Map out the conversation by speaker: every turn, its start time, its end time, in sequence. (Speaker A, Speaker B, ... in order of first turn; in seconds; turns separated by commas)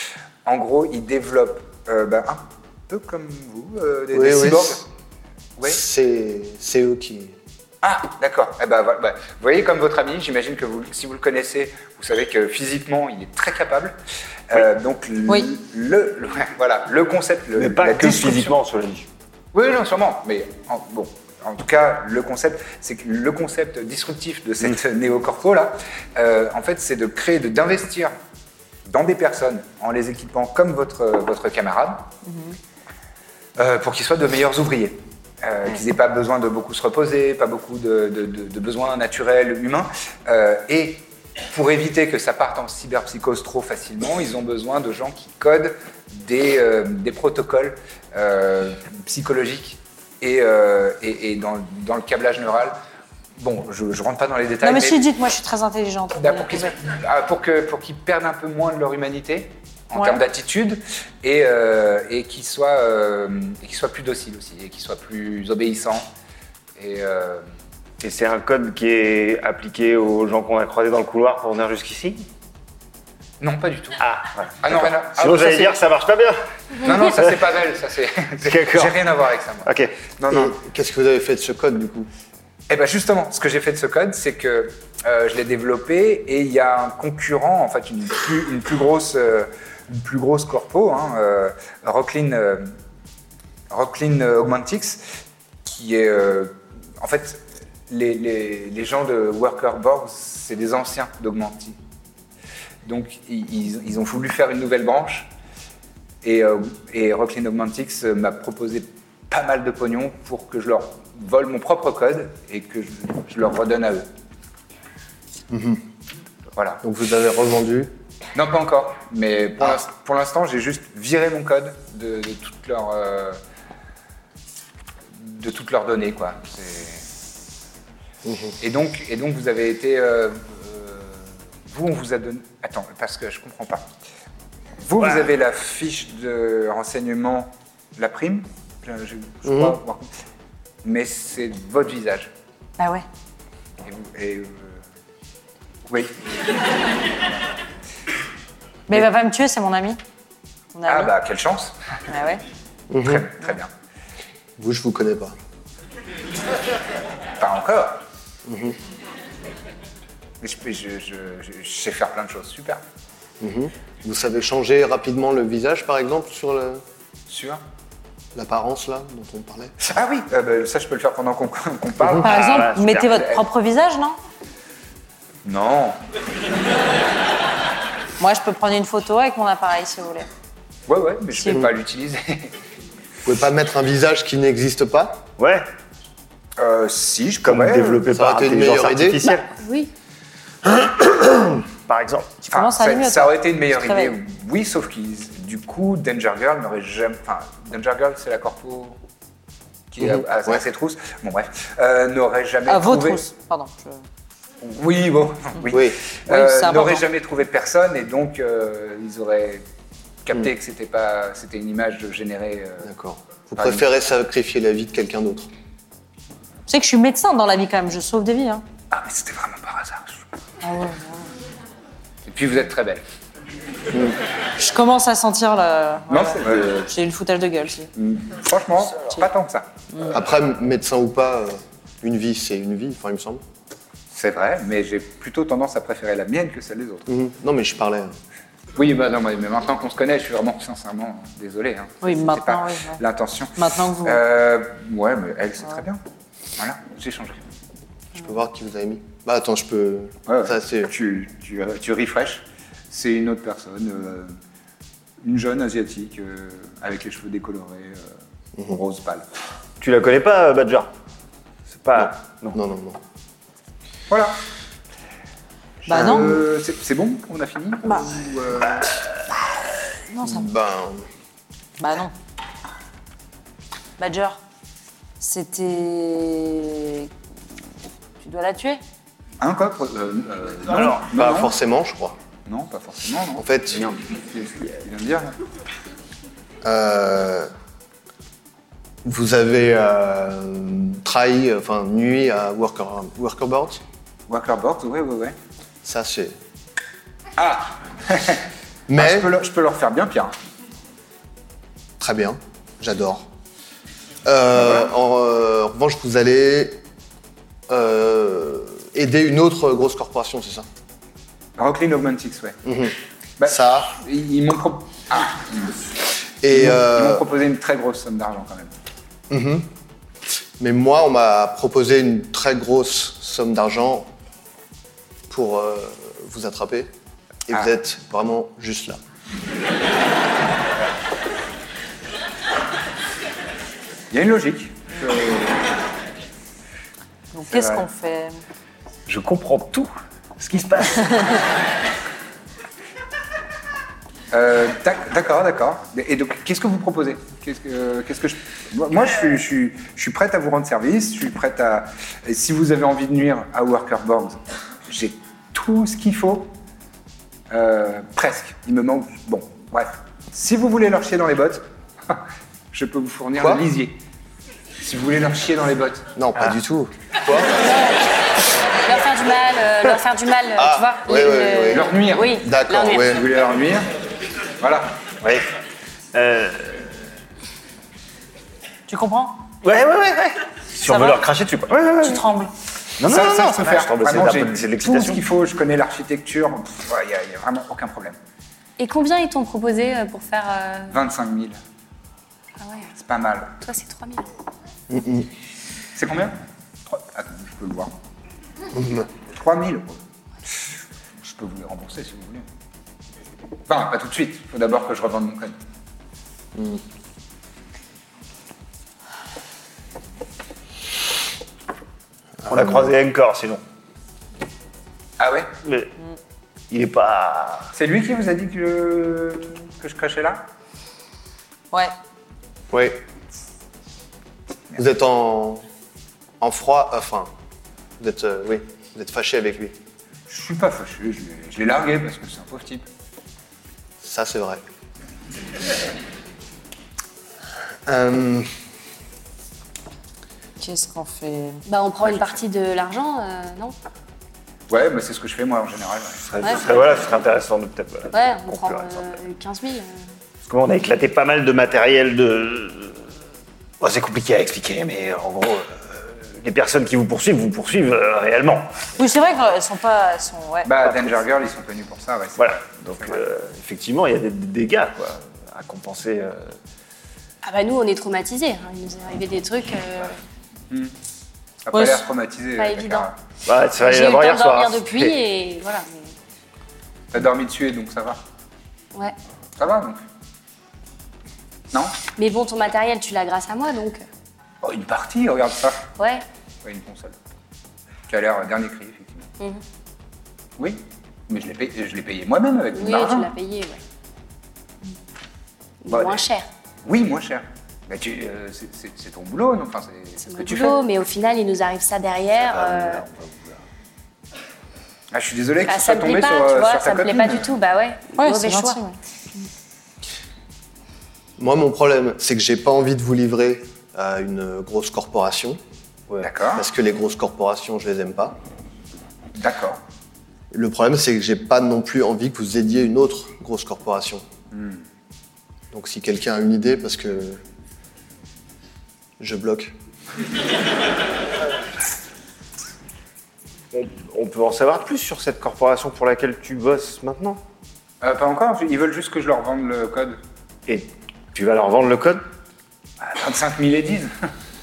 Speaker A: 0.5-4.9, Speaker B: 4.1-4.8, Speaker B: 5.6-7.4, Speaker A: 7.8-14.0, Speaker A: 14.5-18.6, Speaker C: 17.6-19.1, Speaker A: 19.5-28.1, Speaker A: 28.9-32.1, Speaker D: 32.2-32.6, Speaker A: 33.6-52.8, Speaker A: 53.4-55.0, Speaker D: 54.6-56.7, Speaker A: 56.1-66.1, Speaker D: 60.0-60.2, Speaker A: 66.8-67.5, Speaker C: 68.0-72.3, Speaker A: 73.4-74.0, Speaker C: 74.0-77.3, Speaker A: 74.6-75.8, Speaker A: 76.8-80.5, Speaker C: 78.5-79.0, Speaker C: 79.7-80.0, Speaker B: 80.3-82.1, Speaker A: 82.7-92.8, Speaker A: 93.7-95.0, Speaker A: 95.7-101.8, Speaker A: 102.8-105.3, Speaker A: 106.2-114.1, Speaker B: 115.5-115.8, Speaker A: 116.6-116.8, Speaker B: 116.8-117.9, Speaker A: 118.3-123.4, Speaker A: 125.2-127.0, Speaker B: 128.2-128.6, Speaker A: 128.6-133.9, Speaker A: 134.8-140.1, Speaker B: 139.4-139.8, Speaker A: 140.8-142.3, Speaker D: 142.8-143.1, Speaker A: 143.8-144.8, Speaker A: 145.9-146.2, Speaker D: 148.9-150.0, Speaker D: 150.7-151.1, Speaker A: 150.9-151.8, Speaker D: 152.1-152.4, Speaker B: 152.9-153.3, Speaker A: 153.0-153.7, Speaker B: 154.6-155.4, Speaker A: 157.4-158.0, Speaker B: 158.4-158.8, Speaker A: 160.4-162.8, Speaker B: 163.4-166.8, Speaker A: 167.3-167.6, Speaker B: 168.3-169.7, Speaker A: 169.8-173.4, Speaker D: 172.2-174.2, Speaker C: 172.3-173.2, Speaker A: 175.4-176.0, Speaker D: 178.2-180.3, Speaker A: 180.9-182.6, Speaker B: 183.2-185.3, Speaker C: 185.4-185.7, Speaker A: 186.6-188.1, Speaker C: 187.4-189.5, Speaker B: 188.1-189.2, Speaker E: 189.2-189.9, Speaker C: 191.1-192.4, Speaker A: 192.5-199.0, Speaker D: 192.5-194.2, Speaker A: 199.9-203.2, Speaker B: 200.0-200.6, Speaker D: 202.7-204.0, Speaker A: 204.6-209.7, Speaker B: 205.7-206.0, Speaker D: 206.3-207.0, Speaker A: 210.2-212.9, Speaker B: 212.8-215.5, Speaker A: 213.6-213.8, Speaker D: 216.7-218.6, Speaker A: 218.9-220.2, Speaker D: 220.6-221.3, Speaker A: 222.3-223.0, Speaker D: 224.6-227.9, Speaker A: 226.1-226.9, Speaker A: 227.9-229.7, Speaker B: 230.1-233.4, Speaker A: 234.1-237.1, Speaker B: 237.1-238.2, Speaker A: 238.8-246.0, Speaker D: 242.0-243.0, Speaker D: 243.6-244.2, Speaker A: 246.6-247.4, Speaker B: 248.1-250.9, Speaker A: 250.3-254.4, Speaker A: 255.2-258.2, Speaker A: 258.7-259.3, Speaker C: 259.8-260.9, Speaker C: 261.7-262.6, Speaker B: 262.0-263.0, Speaker A: 264.1-264.4, Speaker D: 265.9-266.4, Speaker A: 265.9-268.9, Speaker B: 265.9-266.4, Speaker D: 270.1-270.5, Speaker B: 270.2-271.1, Speaker D: 271.8-272.1, Speaker D: 274.0-274.4, Speaker D: 275.2-277.1, Speaker D: 278.2-278.8, Speaker A: 279.4-281.6, Speaker B: 280.8-282.2, Speaker A: 282.5-285.4, Speaker B: 283.4-283.9, Speaker B: 286.6-287.5, Speaker B: 289.0-293.8, Speaker A: 294.3-295.4, Speaker B: 295.8-296.4, Speaker A: 297.4-300.4, Speaker B: 298.9-299.3, Speaker B: 302.0-303.3, Speaker B: 304.2-306.8, Speaker B: 307.7-310.7, Speaker A: 311.6-312.6, Speaker B: 312.6-312.9, Speaker A: 313.4-315.8, Speaker B: 313.5-313.9, Speaker B: 316.4-317.2, Speaker A: 316.5-318.7, Speaker B: 319.3-319.7, Speaker B: 320.6-324.1, Speaker B: 325.3-326.9, Speaker B: 327.5-329.0, Speaker A: 334.1-335.7, Speaker D: 337.3-338.4, Speaker A: 337.5-337.8, Speaker C: 339.1-339.9, Speaker C: 340.4-341.4, Speaker A: 344.3-356.5, Speaker A: 357.5-364.0, Speaker B: 363.4-363.6, Speaker A: 364.8-366.1, Speaker B: 366.1-367.6, Speaker E: 367.5-368.1, Speaker E: 368.8-373.2, Speaker B: 370.6-373.2, Speaker A: 371.7-372.4, Speaker A: 373.0-373.9, Speaker A: 374.6-375.0, Speaker C: 376.1-377.0, Speaker D: 378.9-379.5, Speaker C: 379.6-382.3, Speaker D: 380.9-381.2, Speaker D: 382.0-382.5, Speaker C: 383.0-385.2, Speaker A: 383.1-388.2, Speaker E: 388.8-390.9, Speaker A: 390.9-391.6, Speaker E: 392.6-392.9, Speaker A: 393.0-393.6, Speaker E: 393.6-394.3, Speaker B: 394.9-395.3, Speaker A: 395.9-397.9, Speaker B: 398.7-399.1, Speaker A: 399.3-400.0, Speaker A: 401.2-402.5, Speaker A: 403.7-405.6, Speaker B: 406.6-406.8, Speaker C: 412.5-413.6, Speaker A: 415.2-415.5, Speaker C: 415.6-415.9, Speaker C: 416.7-417.7, Speaker A: 417.7-420.5, Speaker B: 422.7-423.0, Speaker B: 424.8-425.6, Speaker B: 426.4-427.3, Speaker B: 428.0-429.7, Speaker A: 430.3-432.9, Speaker B: 434.0-434.6, Speaker B: 437.9-438.5, Speaker D: 440.6-441.6, Speaker E: 441.7-443.8, Speaker A: 444.7-446.3, Speaker C: 446.3-449.0, Speaker E: 448.1-450.0, Speaker C: 450.5-453.0, Speaker C: 453.8-458.9, Speaker D: 459.0-460.7, Speaker A: 460.6-463.2, Speaker C: 462.4-466.6, Speaker E: 467.4-470.2, Speaker A: 471.7-473.1, Speaker D: 471.7-472.1, Speaker E: 472.6-473.1, Speaker C: 473.5-475.2, Speaker E: 473.8-476.1, Speaker A: 477.1-478.2, Speaker A: 479.6-480.0, Speaker A: 481.7-482.0, Speaker E: 482.2-484.0, Speaker A: 484.6-485.9, Speaker E: 486.0-486.2, Speaker A: 486.6-487.2, Speaker A: 488.1-489.3, Speaker A: 490.6-493.3, Speaker E: 492.7-493.8, Speaker E: 495.8-496.5, Speaker A: 495.9-496.2, Speaker A: 496.9-500.8, Speaker E: 500.3-503.0, Speaker A: 502.9-503.4, Speaker A: 505.1-507.5, Speaker E: 505.7-508.8, Speaker D: 508.2-509.0, Speaker B: 511.4-515.6, Speaker A: 516.2-516.7, Speaker B: 516.5-518.4, Speaker A: 519.4-519.8, Speaker B: 520.5-524.2, Speaker A: 524.5-524.8, Speaker B: 525.7-527.4, Speaker B: 529.2-529.7, Speaker C: 533.7-537.4, Speaker A: 538.0-540.2, Speaker C: 540.7-542.2, Speaker A: 543.0-544.1